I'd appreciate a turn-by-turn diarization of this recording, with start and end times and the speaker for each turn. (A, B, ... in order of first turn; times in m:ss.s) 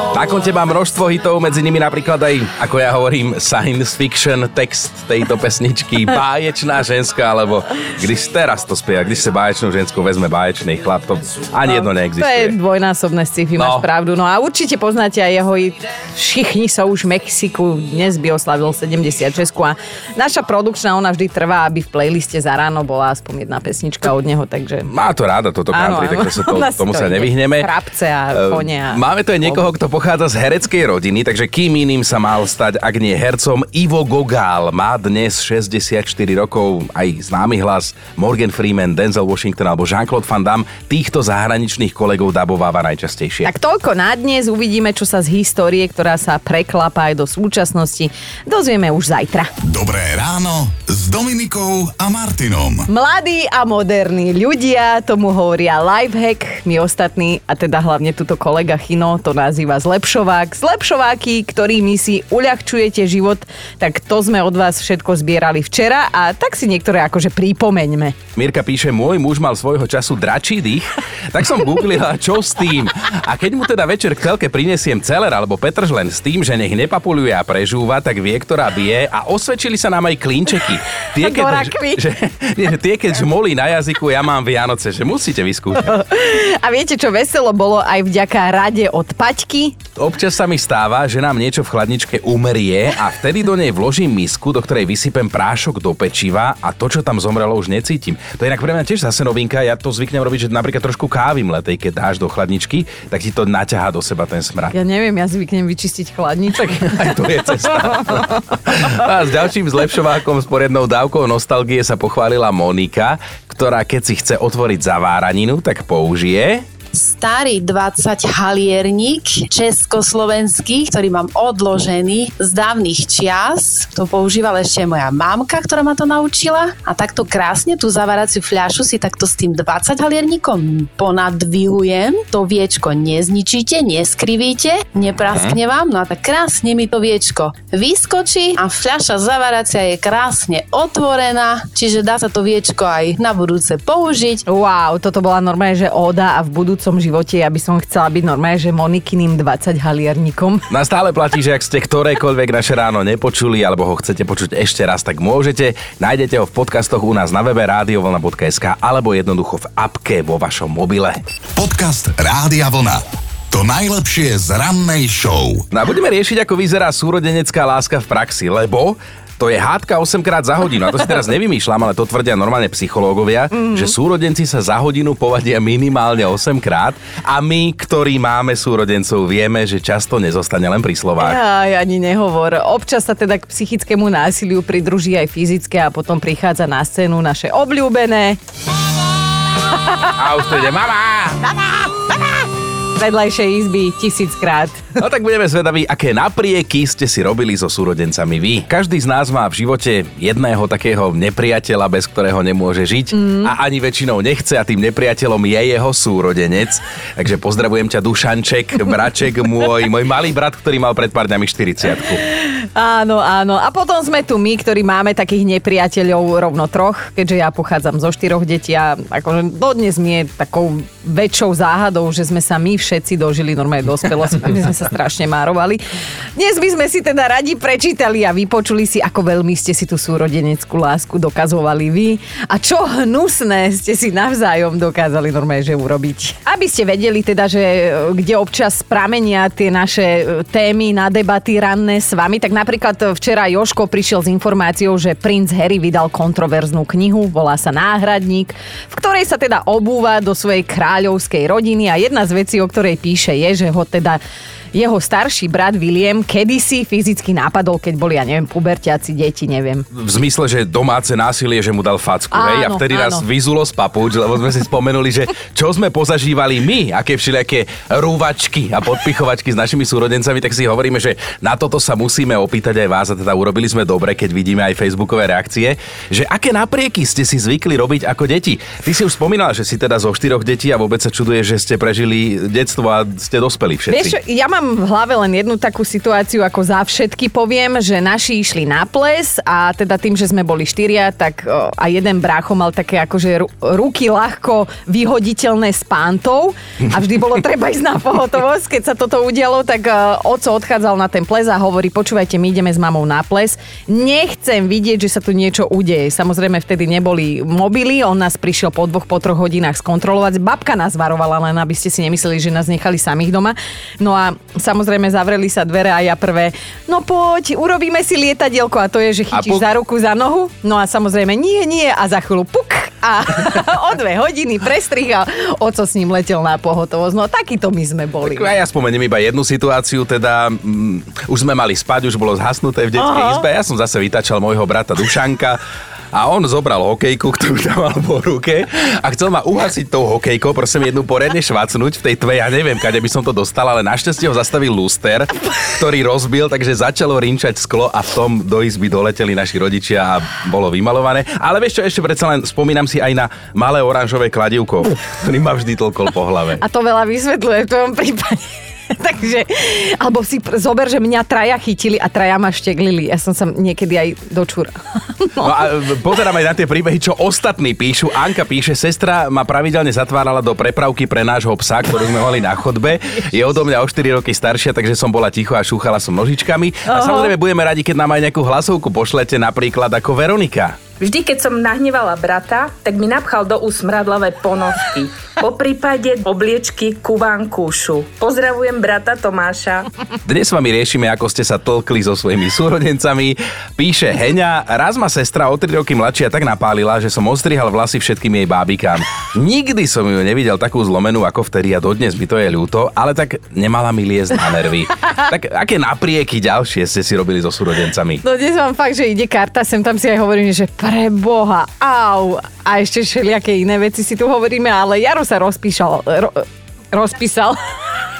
0:00.1-0:12.6 A
0:11.7-0:24.9 B
0:13.6-0:13.8 A
0:24.9-0:27.7 A
0:25.7-0:29.6 B
0:28.3-0:43.5 A
0:43.4-0:49.5 B
0:49.6-0:52.9 C
0:52.9-1:08.2 B
1:08.4-1:26.0 A
1:21.2-1:22.0 B
1:25.8-1:29.8 B
1:30.0-1:44.8 A
1:44.7-1:47.1 B
1:46.6-1:56.6 A
1:57.0-2:24.4 D
2:24.5-2:30.6 B
2:30.7-2:41.2 A
2:41.6-2:45.6 C
2:45.7-3:01.4 A
2:53.5-2:53.9 B
3:01.2-3:08.4 B
3:10.2-3:11.6 A
3:13.0-3:14.9 B
3:15.0-3:32.2 A
3:23.1-3:23.5 B
3:32.4-3:45.8 B
3:46.4-4:14.2 B
4:14.7-4:19.9 B
4:19.9-4:44.2 A
4:22.3-4:23.2 B
4:43.9-5:28.6 B
5:19.3-5:19.6 A
5:28.2-5:35.6 A
5:33.0-5:33.4 B
5:36.1-5:56.6 A
5:56.6-6:05.5 B
6:05.4-6:20.8 A
6:16.9-6:17.3 B
6:21.0-6:29.8 E
6:30.2-6:48.2 A
6:48.2-6:57.6 B